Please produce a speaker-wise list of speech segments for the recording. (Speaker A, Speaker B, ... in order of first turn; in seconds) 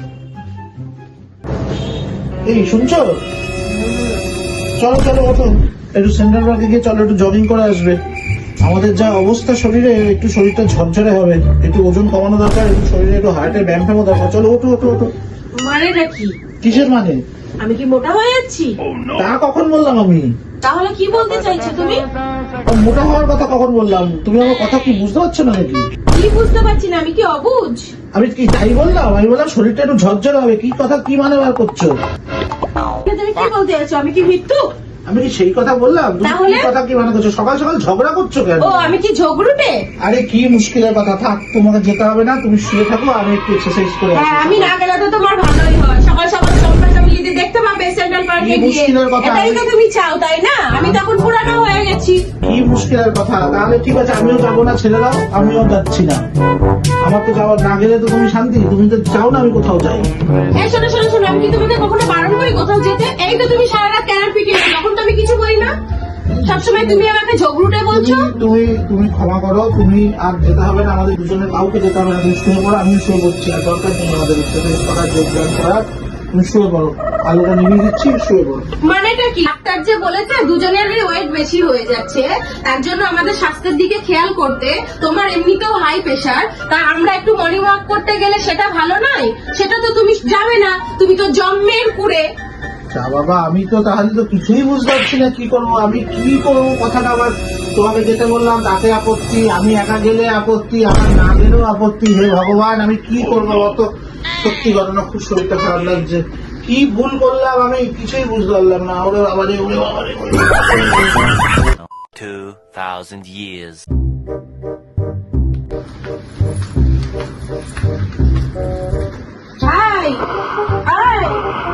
Speaker A: 2.5-3.1, 4.8-8.0, 8.6-15.1, 16.6-17.2, 19.2-20.3, 22.7-25.9, 28.1-31.9, 35.1-39.0, 40.0-44.7, 48.4-49.7, 52.4-56.2, 57.0-60.1, 66.3-67.0, 67.9-78.7, 92.9-110.8
Speaker B: 3.8-4.2, 15.6-16.4, 17.6-18.7, 20.6-22.1, 26.1-27.9, 33.0-34.7, 36.2-36.7, 38.6-39.8, 44.1-52.2, 60.6-65.7, 66.4-68.3, 78.8-92.3, 119.6-120.2, 120.8-121.4
Speaker C: 111.8-113.9